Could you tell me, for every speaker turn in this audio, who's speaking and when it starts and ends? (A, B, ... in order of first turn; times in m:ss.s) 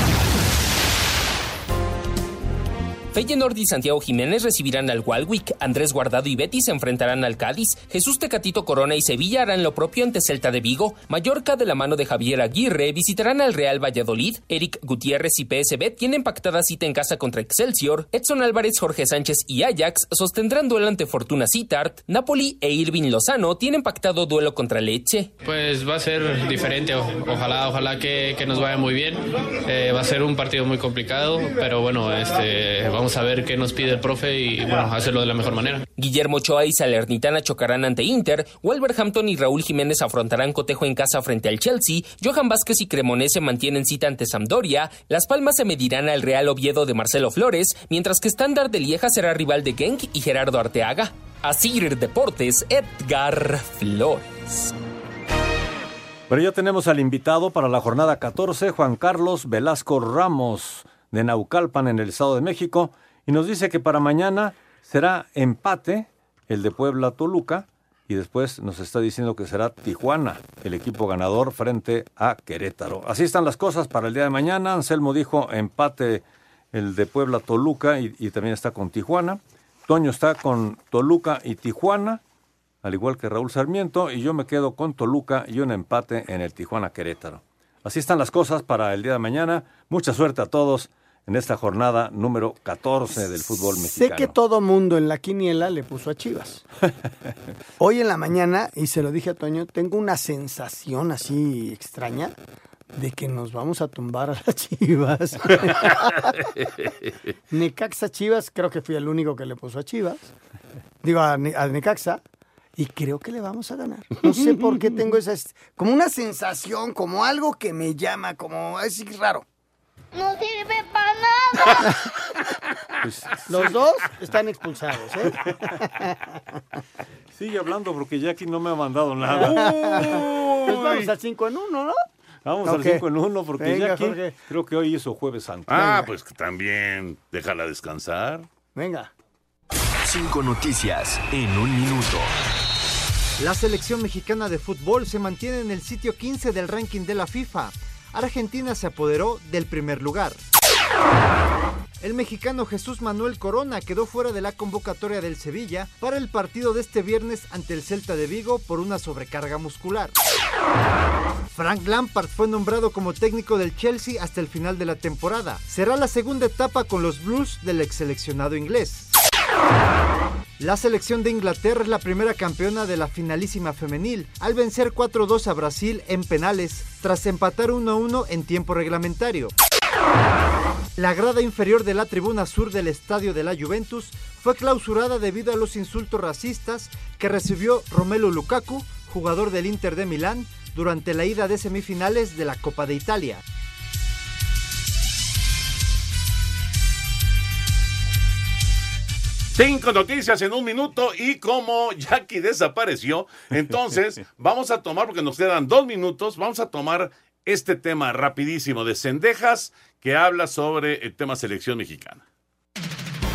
0:03.1-0:25.3 A
0:25.4-0:35.8 B
0:36.0-0:54.7 A
0:56.3-1:22.2 C
1:22.8-1:34.3 C
1:33.7-1:36.6 D
1:37.8-1:42.4 D
1:42.9-1:46.4 D
1:47.5-1:50.3 D
1:51.0-1:52.2 D
1:52.8-1:59.4 D
2:03.0-2:03.6 C
2:03.4-2:06.2 D
2:07.3-2:10.2 C
2:09.2-2:12.0 D
2:09.7-2:11.1 E
2:12.4-2:16.1 C
2:12.6-2:14.3 D
2:15.7-2:18.5 E
2:18.7-2:19.1 D
2:20.0-2:22.3 F
2:23.4-2:30.4 G
2:32.0-2:40.1 G
2:41.5-2:49.1 G
2:50.6-2:59.5 G
3:01.0-3:13.4 G
3:19.5-3:32.2 E